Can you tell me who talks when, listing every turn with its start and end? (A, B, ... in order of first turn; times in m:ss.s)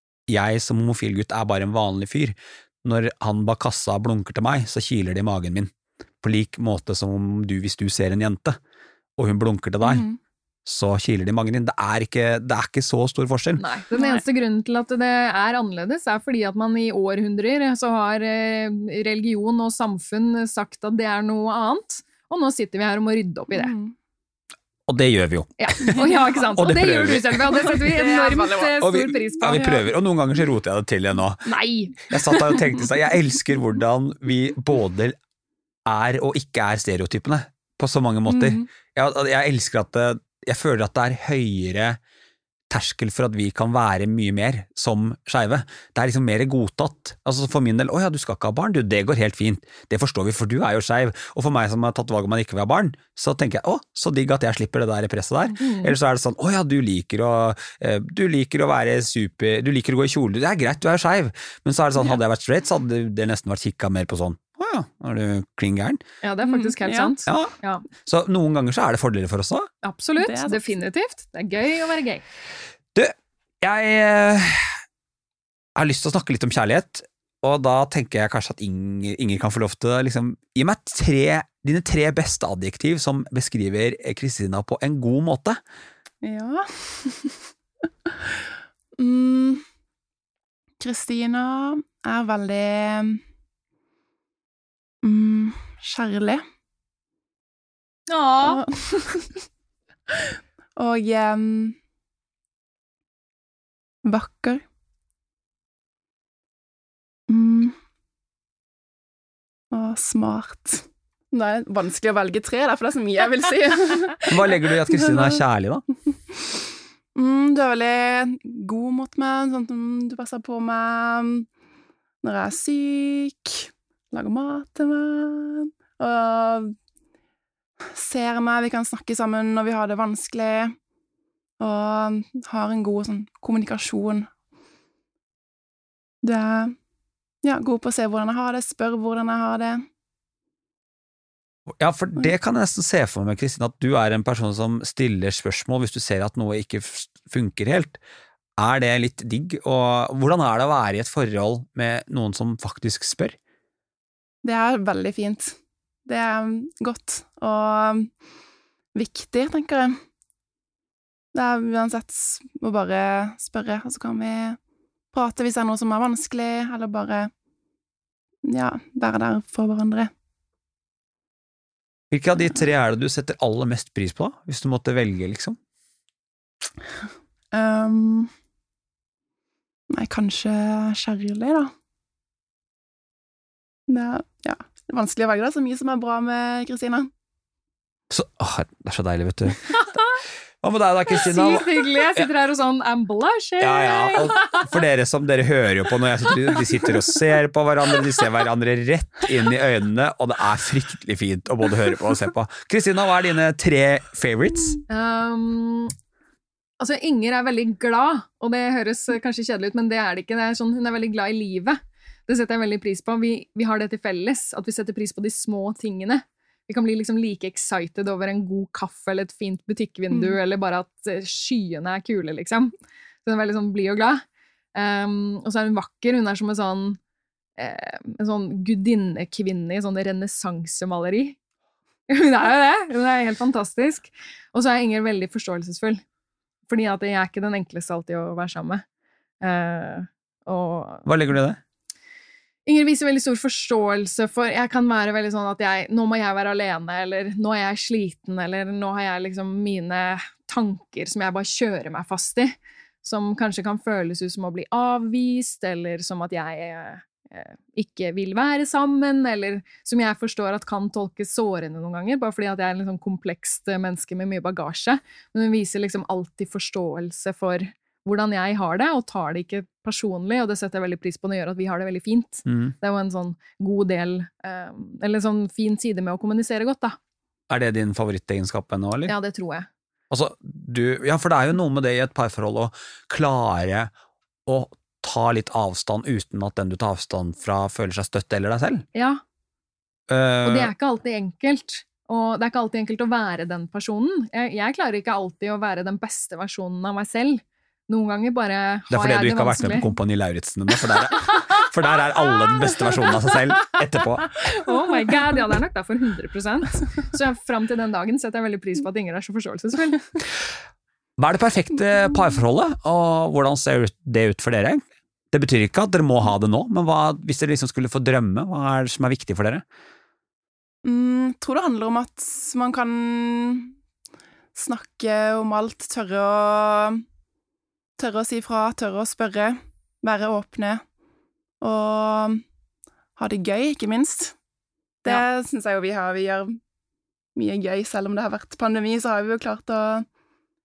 0:00.3-0:05.7 A
0:06.2-0:08.6 A
0:09.2-0:10.0 A
0:09.8-0:10.2 B
0:10.6-0:13.6 A
0:13.6-0:23.7 C
0:14.0-0:14.2 B
0:23.5-0:23.9 B
0:24.9-0:27.9 A
0:25.6-0:29.8 C
0:25.9-0:26.4 B
0:27.6-0:28.8 B
0:28.8-0:31.5 A
0:29.4-0:29.8 B
0:31.4-0:32.6 C
0:32.0-0:35.2 A
0:35.8-0:42.0 A
0:38.3-0:38.6 B
0:42.7-1:06.0 A
0:55.6-0:55.9 C
1:06.2-1:07.8 C
1:06.4-1:07.1 B
1:07.3-1:07.5 A
1:08.0-1:09.7 A
1:09.8-1:12.2 C
1:10.2-1:10.7 B
1:12.9-1:14.6 A
1:15.8-1:25.6 A
1:26.2-1:27.4 B
1:28.0-1:28.4 B
1:29.0-1:29.6 B
1:30.8-1:33.2 B
1:35.0-1:36.4 B
1:38.1-1:38.6 C
1:38.4-1:39.3 B
1:40.1-1:41.8 B
1:44.0-1:44.6 B
1:47.3-1:47.7 B
1:49.7-1:55.4 B
1:54.2-1:55.8 A
1:56.1-1:56.6 B
1:57.1-2:01.5 B
2:02.2-2:06.7 B
2:07.8-2:10.7 B
2:11.6-2:14.3 B
2:16.2-2:16.7 B
2:17.4-2:19.8 B
2:21.8-2:28.0 A
2:28.6-2:33.4 A
2:34.4-2:38.1 B
2:38.9-2:40.0 B
2:41.3-2:44.6 B
2:45.1-2:47.3 B
2:48.4-2:50.1 B
2:52.1-2:55.6 A
2:57.5-2:58.3 B
2:59.9-3:01.7 B
3:03.9-3:07.1 B
3:08.1-3:09.8 A
3:09.7-3:10.2 C
3:10.6-3:12.3 A
3:11.1-3:14.7 C
3:13.6-3:24.8 A
3:24.9-3:25.9 C
3:26.8-3:42.7 C
3:40.1-3:40.4 B
3:43.2-3:44.2 C
3:44.7-3:47.0 C
3:47.6-3:51.4 C
3:52.1-3:56.0 C
3:56.7-3:58.8 C
3:59.4-4:01.1 C
4:01.0-4:01.6 A
4:02.6-4:37.0 C
4:32.4-4:32.7 A
4:37.5-4:39.1 A
4:39.0-4:39.7 C
4:40.1-4:43.9 A
4:44.4-4:48.8 A
4:48.9-4:49.2 C
4:50.1-4:50.7 A
4:50.4-4:59.8 C
4:58.9-5:04.4 A
5:01.2-5:01.6 C
5:04.4-5:10.0 C
5:11.2-5:19.6 A
5:20.8-5:23.7 B
5:24.5-5:27.0 B
5:28.0-5:30.8 B
5:31.6-5:32.4 B
5:33.2-5:34.4 B
5:35.0-5:36.6 B
5:37.4-5:40.1 B